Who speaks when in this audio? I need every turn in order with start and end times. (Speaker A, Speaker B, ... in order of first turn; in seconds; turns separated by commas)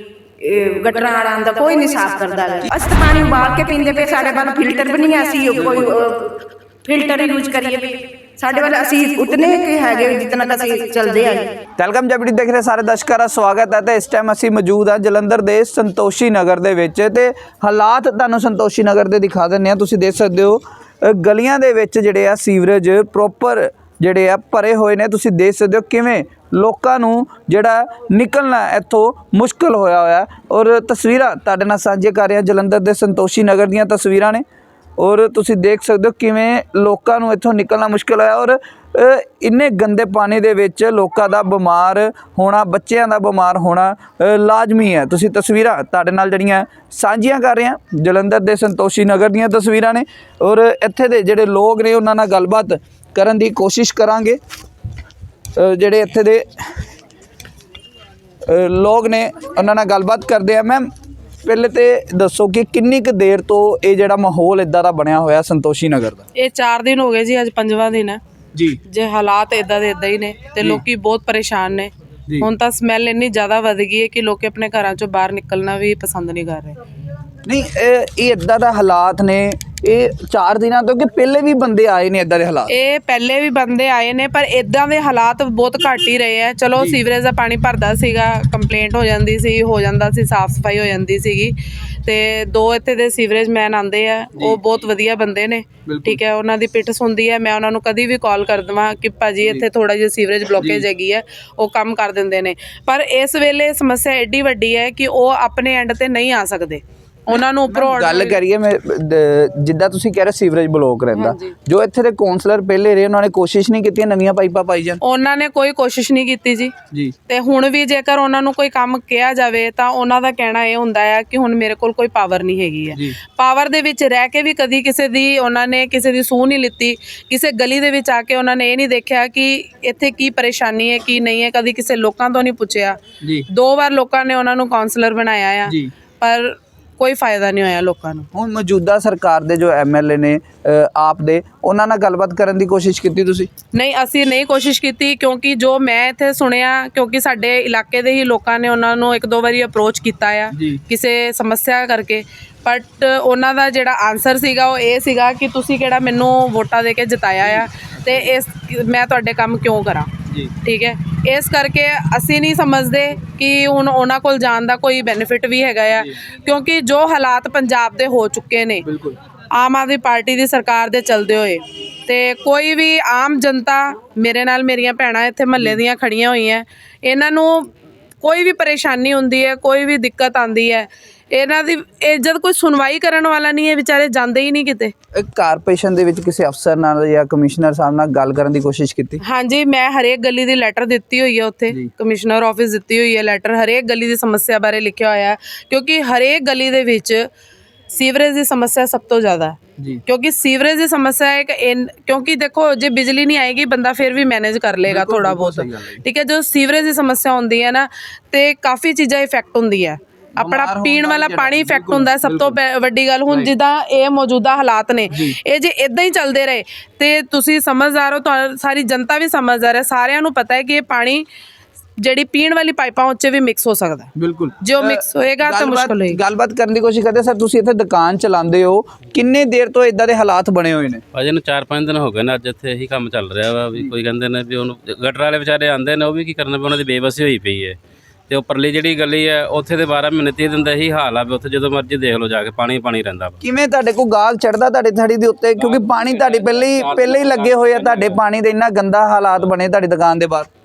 Speaker A: 0.4-11.5, Speaker B: 5.6-5.9, Speaker B: 11.8-34.4, Speaker B: 35.0-54.4, Speaker B: 55.5-56.5, Speaker B: 58.5-60.9, Speaker B: 61.4-66.2, Speaker C: 66.4-68.2, Speaker B: 68.5-68.8, Speaker C: 68.8-76.8, Speaker B: 77.4-82.7, Speaker C: 82.7-108.4, Speaker B: 95.8-96.2, Speaker B: 100.6-100.8, Speaker B: 107.7-115.0, Speaker C: 111.1-111.5, Speaker C: 115.0-133.0, Speaker C: 133.5-138.3, Speaker B: 135.7-135.9, Speaker B: 138.3-143.5, Speaker C: 143.7-168.8, Speaker B: 150.5-150.8, Speaker B: 157.4-158.3, Speaker B: 168.8-169.1, Speaker C: 169.5-177.7, Speaker C: 178.2-184.9, Speaker B: 185.1-189.2, Speaker C: 189.2-197.3, Speaker C: 197.9-221.2, Speaker B: 204.8-206.0, Speaker B: 210.3-212.6, Speaker C: 222.0-224.1, Speaker B: 224.2-231.0, Speaker C: 224.6-226.2, Speaker D: 231.1-237.8, Speaker D: 238.3-243.4, Speaker B: 243.4-250.5, Speaker D: 245.6-248.2